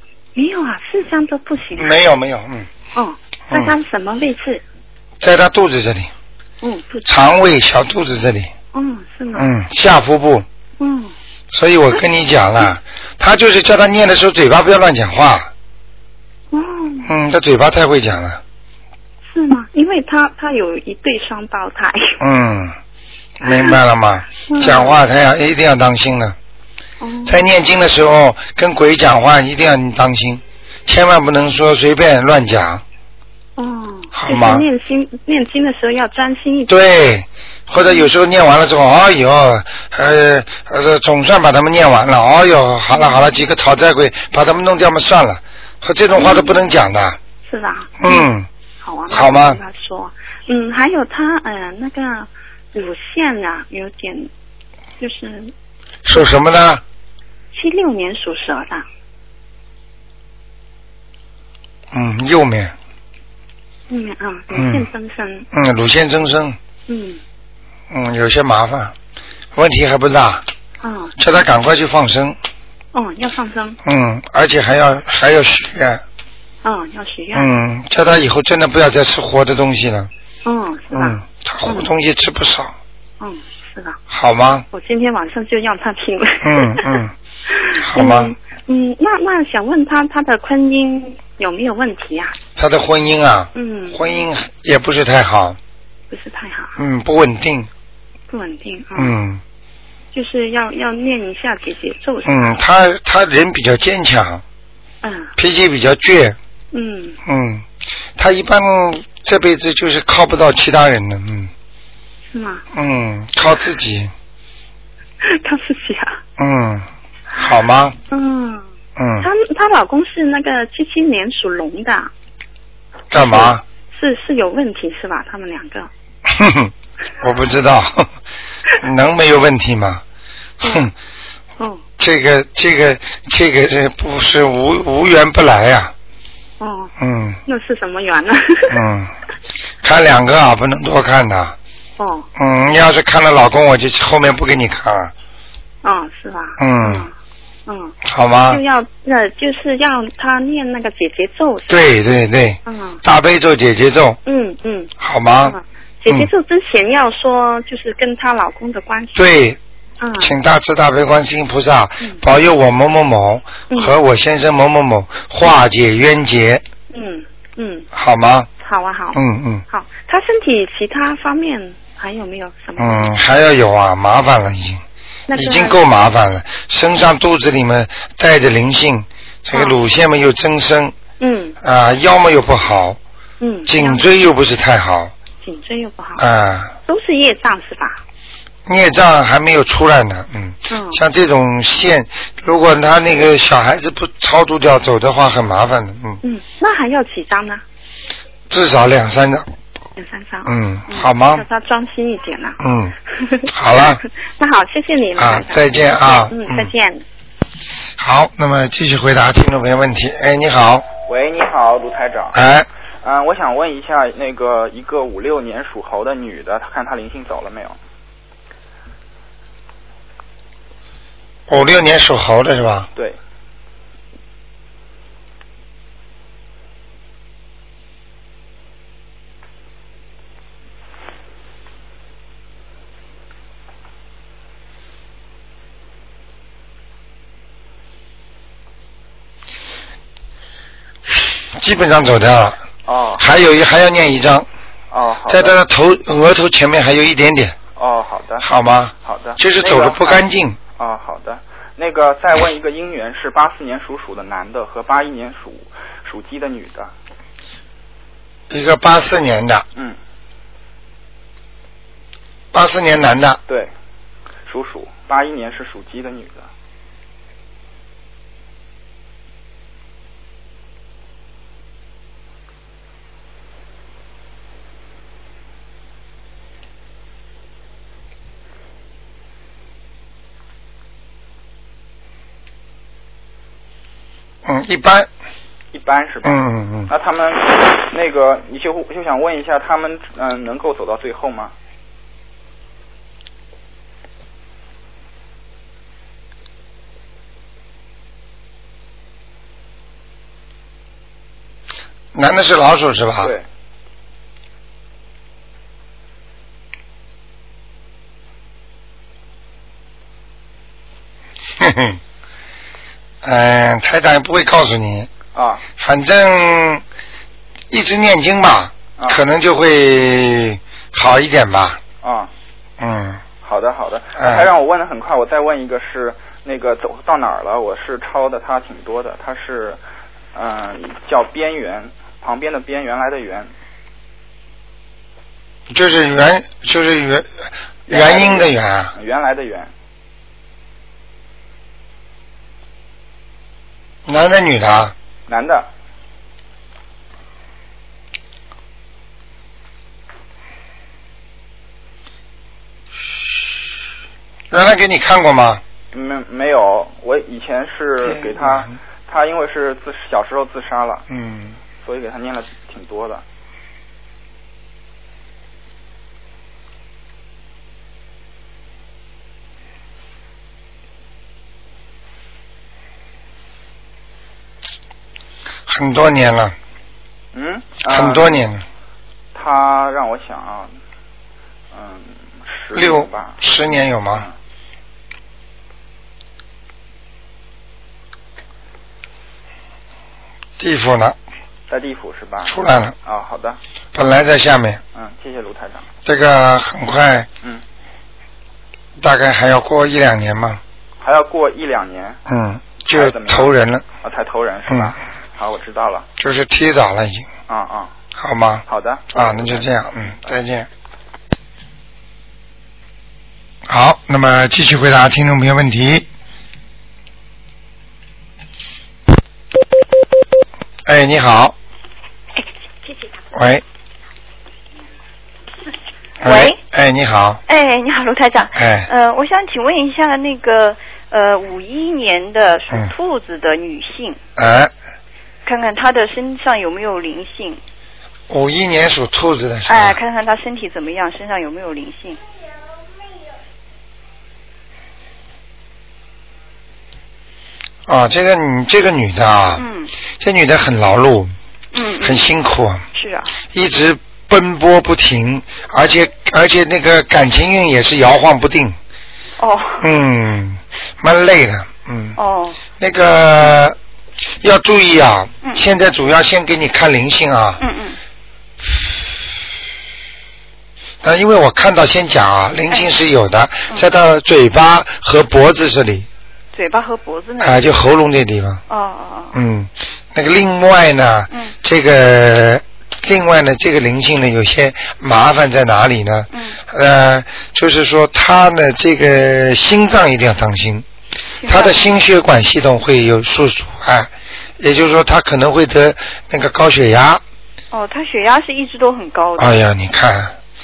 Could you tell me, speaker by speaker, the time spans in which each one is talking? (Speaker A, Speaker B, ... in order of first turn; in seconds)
Speaker A: 0.3-2.0, 2.9-4.6, 6.6-7.0, 8.7-9.5, 10.8-11.1, 16.5-17.1, 19.3-22.2, 23.4-23.8, 24.3-25.0, 27.0-27.4, 33.6-36.7, 37.8-38.1, 42.9-43.2, 46.1-46.6, 47.4-48.3, 48.8-54.3, 55.0-55.5, 57.5-58.9, 63.9-65.5, 66.9-67.2, 70.8-71.1, 72.9-73.8, 76.6-77.5, 80.4-81.9, 83.2-84.0, 84.7-92.3, 93.5-94.2, 96.1-96.7, 98.3-99.1, 100.1-102.5, 105.0-105.3, 106.7-107.2, 112.3-112.6, 115.2-116.2, 118.1-118.6, 119.2-122.1, 123.1-125.9, 130.6-130.9, 136.6-136.9, 137.4-138.8, 142.0-142.3, 145.8-147.1, 147.7-148.0, 148.5-151.8, 152.7-153.0, 154.2-154.9, 155.4-159.2, 160.0-160.3, 166.9-167.9, 168.6-173.1, 175.3-175.8, 179.5-179.8, 181.2-181.6, 183.4-184.0, 185.4-186.2, 186.8-188.0, 190.7-191.0, 196.2-197.6, 200.0-202.6, 203.1-207.0
Speaker B: 1.8-2.7, 5.2-6.1, 7.0-8.5, 9.3-10.4, 11.5-15.5, 17.0-18.4, 22.2-22.8, 23.4-26.4, 27.2-32.8, 34.1-34.6, 36.7-47.2, 48.0-48.5, 49.1-49.6, 56.0-56.8, 61.9-62.7, 64.5-64.9, 65.5-66.6, 67.9-68.9, 69.5-70.5, 71.2-72.4, 73.8-76.0, 77.3-80.1, 80.9-82.7, 84.1-84.7, 86.4-87.1, 87.8-88.3, 92.5-95.6, 96.8-97.7, 98.9-99.4, 102.2-104.4, 105.4-106.4, 107.2-107.6, 108.2-111.5, 112.7-114.1, 116.4-118.0, 119.0-119.3, 123.1-123.6, 126.3-128.1, 128.8-130.0, 130.6-130.9, 132.0-135.9, 137.0-137.4, 138.7-139.1, 139.8-141.6, 142.3-145.1, 146.6-147.1, 148.0-148.6, 151.7-154.2, 155.0-155.5, 159.1-159.6, 160.2-166.6, 167.9-168.5, 169.1-169.6, 172.8-174.8, 175.3-180.9, 181.6-183.0, 183.7-185.1, 186.2-186.7, 188.7-196.2, 198.5-199.5, 200.4-201.4, 202.6-202.9, 203.5-204.0, 205.2-206.7, 208.0-210.8, 212.3-212.7, 221.5-222.9, 241.6-242.6, 243.2-244.5, 245.3-247.6, 248.4-250.6, 258.5-259.6, 262.5-263.4, 284.4-285.1, 286.2-286.9, 302.1-303.3, 311.6-312.0, 313.2-315.1, 315.8-316.8, 317.7-321.8, 322.8-323.2, 324.2-324.5, 335.7-338.9, 344.1-344.9, 354.5-355.6, 358.1-358.7, 361.1-361.6, 375.7-376.5, 377.9-378.6, 382.7-384.3, 390.6-391.2, 392.5-392.9, 393.9-394.8, 396.0-397.3, 399.0-400.6, 402.3-403.8, 404.7-404.9, 406.2-407.3, 408.1-410.7, 413.7-416.1, 420.9-421.6, 423.3-423.6, 426.2-427.4, 428.5-428.9, 434.4-434.7, 438.3-440.0, 447.9-449.6, 450.2-451.3, 452.0-452.8, 453.5-458.8, 459.8-462.2, 462.8-463.8, 464.4-467.6, 471.0-476.1, 477.4-478.6, 479.3-490.8, 491.4-497.2, 499.4-500.3
Speaker C: 211.1-212.4, 213.0-217.8, 242.8-243.2, 244.9-245.6, 247.8-248.4, 249.0-250.2, 250.8-256.9, 264.4-266.5, 285.7-291.5, 315.3-315.6, 322.0-322.3, 323.4-329.8, 330.3-333.5, 337.9-339.7, 345.3-345.7, 355.9-361.0, 361.8-363.2, 377.3-378.4, 379.3-380.7, 381.7-383.4, 391.7-393.6, 394.9-395.9, 401.0-402.2, 402.9-406.1, 407.5-407.9, 408.7-410.3
Speaker D: 426.2-426.6, 427.5-434.2, 435.4-437.6, 439.7-442.2, 449.6-449.9, 451.7-452.2, 452.9-453.3, 459.4-459.9, 462.2-462.6, 467.6-468.0, 476.5-477.7, 478.7-479.3, 491.4-491.8, 497.7-499.6